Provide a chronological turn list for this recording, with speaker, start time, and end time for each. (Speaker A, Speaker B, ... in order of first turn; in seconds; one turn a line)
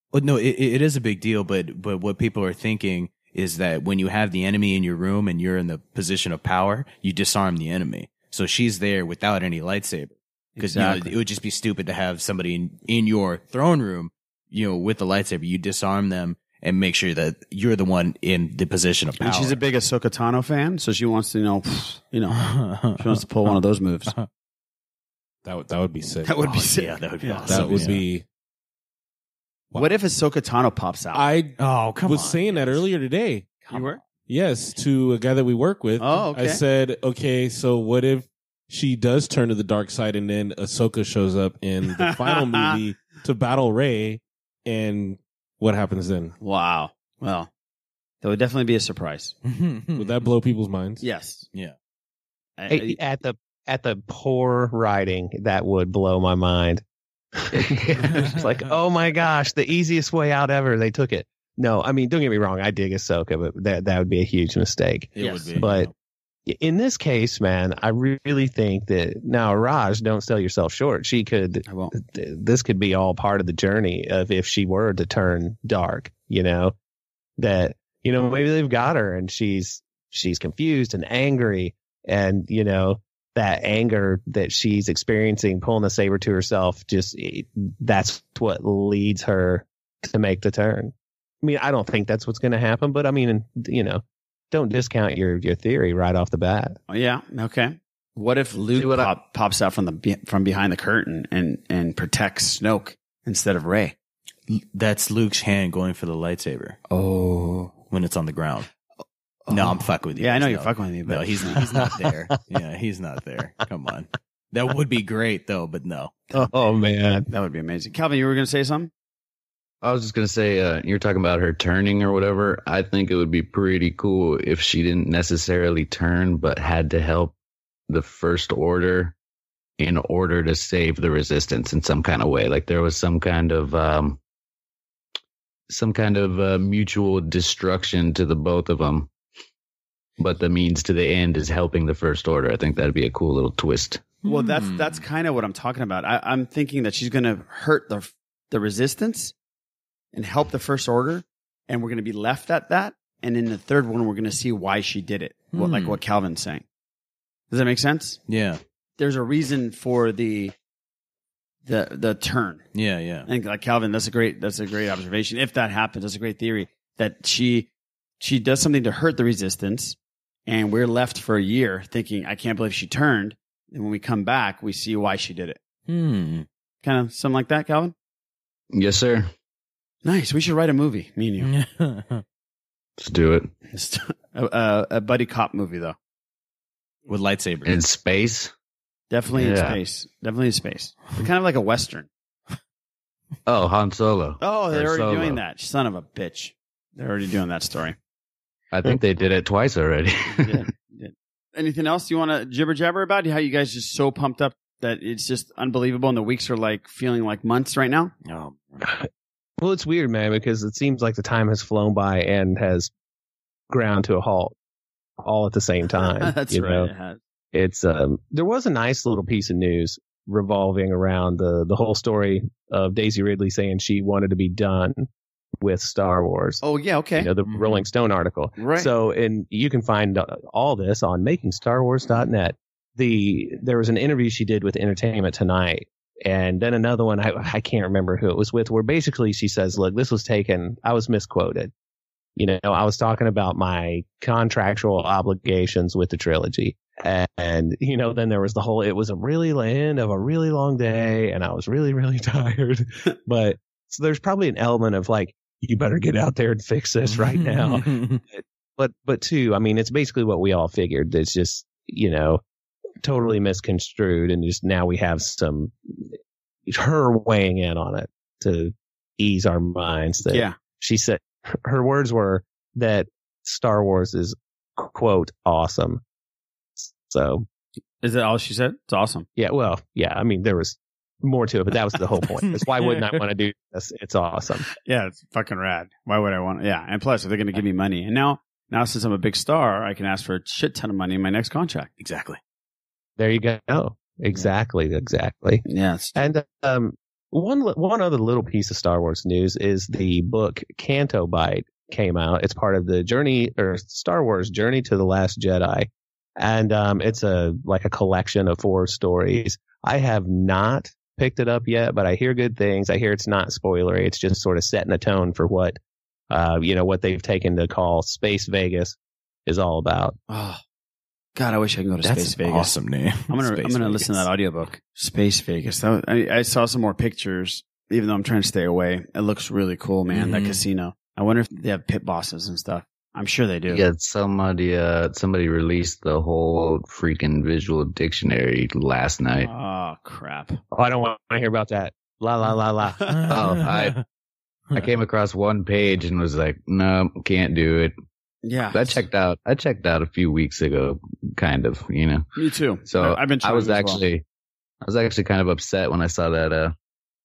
Speaker A: 0.1-19.6
Speaker B: 10.6-11.1
Speaker B: 19.2-22.4
Speaker A: 22.3-23.6
Speaker B: 22.9-24.1
Speaker C: 25.4-26.5
Speaker B: 26.2-27.9
Speaker A: 26.7-28.0
Speaker C: 27.4-28.2
Speaker B: 29.7-31.2
Speaker C: 31.1-33.6
Speaker A: 31.6-32.8
Speaker B: 33.6-34.0
Speaker C: 34.3-46.3
Speaker B: 36.0-36.6
Speaker B: 41.9-42.7
Speaker B: 46.4-47.5
Speaker B: 48.2-49.3
Speaker A: 49.5-50.3
Speaker C: 50.0-51.0
Speaker B: 51.0-51.5
Speaker B: 52.6-53.0
Speaker D: 52.7-56.8
Speaker D: 57.4-65.9
Speaker A: 58.0-58.4
Speaker A: 65.2-65.9
Speaker B: 65.2-65.5
Speaker D: 66.5-76.7
Speaker B: 71.7-71.9
Speaker D: 77.4-96.8
Speaker B: 96.9-103.9
Speaker E: 98.7-99.1
Speaker A: 104.5-106.8
Speaker B: 106.9-107.7
Speaker A: 107.9-108.7
Speaker B: 109.5-111.6
Speaker A: 109.5-116.2
Speaker D: 116.3-117.3
Speaker B: 117.3-118.9
Speaker E: 119.8-127.3
Speaker E: 127.9-129.1
Speaker E: 129.8-134.2
Speaker E: 135.7-139.1
Speaker E: 140.2-144.1
Speaker A: 144.2-145.0
Speaker B: 144.2-149.3
Speaker B: 150.1-156.6
Speaker A: 155.5-156.0
Speaker B: 157.5-158.2
Speaker A: 158.3-158.6
Speaker B: 159.0-160.5
Speaker B: 161.7-162.7
Speaker A: 162.7-163.3
Speaker B: 163.2-167.7
Speaker B: 168.2-175.6
Speaker A: 175.9-176.5
Speaker B: 176.8-177.9
Speaker E: 178.7-179.3
Speaker B: 180.0-181.5
Speaker A: 181.4-182.2
Speaker E: 183.0-183.5
Speaker B: 183.7-185.9
Speaker A: 187.1-187.8
Speaker E: 187.6-188.5
Speaker B: 189.1-192.1
Speaker E: 189.3-189.8
Speaker E: 193.4-195.4
Speaker B: 194.4-197.9
Speaker E: 198.7-200.6
Speaker B: 200.3-208.1
Speaker A: 208.2-208.9
Speaker D: 209.6-212.9
Speaker D: 213.7-214.5
Speaker D: 215.2-216.9
Speaker B: 216.0-217.2
Speaker D: 217.5-225.1
Speaker D: 225.6-226.6
Speaker B: 226.6-227.3
Speaker D: 227.2-241.7
Speaker A: 227.5-227.8
Speaker B: 228.6-228.9
Speaker D: 242.4-262.4
Speaker A: 257.1-258.2
Speaker D: 263.0-266.1
Speaker D: 266.7-276.0
Speaker B: 270.3-270.5
Speaker D: 276.8-277.4
Speaker B: 278.0-279.3
Speaker D: 279.4-284.7
Speaker B: 284.8-291.9
Speaker A: 292.0-292.4
Speaker D: 293.2-295.6
Speaker B: 295.6-296.2
Speaker D: 296.1-315.8
Speaker D: 316.3-320.1
Speaker B: 320.3-320.6
Speaker B: 321.4-322.8
Speaker A: 322.0-324.3
Speaker B: 323.3-333.8
Speaker A: 330.1-330.6
Speaker E: 333.7-339.5
Speaker B: 339.4-340.6
Speaker D: 340.7-343.0
Speaker A: 343.1-344.0
Speaker E: 343.3-344.0
Speaker E: 344.7-347.9
Speaker B: 348.4-349.0
Speaker E: 348.7-352.2
Speaker B: 352.4-354.0
Speaker E: 352.9-354.2
Speaker E: 354.8-356.7